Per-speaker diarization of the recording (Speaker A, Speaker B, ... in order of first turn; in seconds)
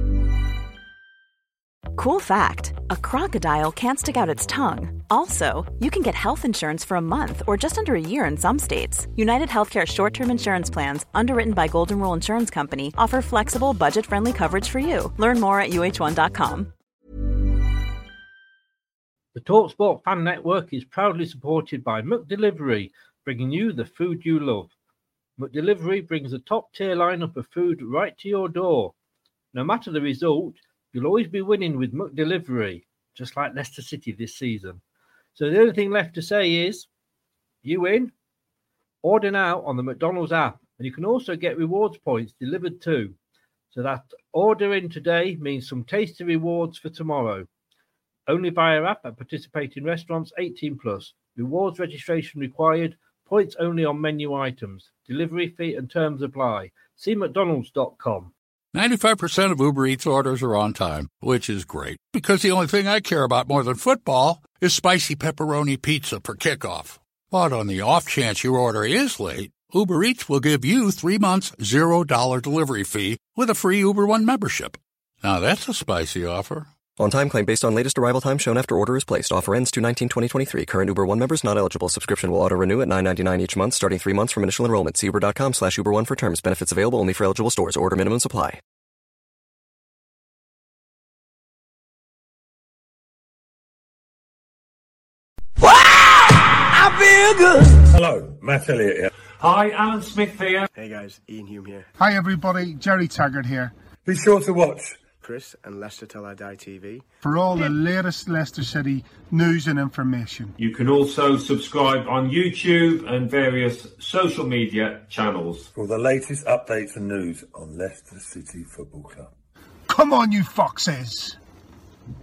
Speaker A: 1.9-16.7
Speaker B: 19.3-24.7, 25.4-28.9, 29.5-34.8, 35.4-36.9, 37.6-38.1, 39.0-43.1, 43.7-47.5, 48.3-58.3
Speaker C: 58.7-76.7
Speaker D: 77.0-88.6
Speaker E: 96.9-99.1, 104.0-105.1, 115.7-119.3
Speaker F: 99.4-100.7, 110.6-115.7
Speaker G: 100.7-101.9, 105.2-107.0
Speaker H: 102.0-103.7, 107.2-110.5, 119.9-121.4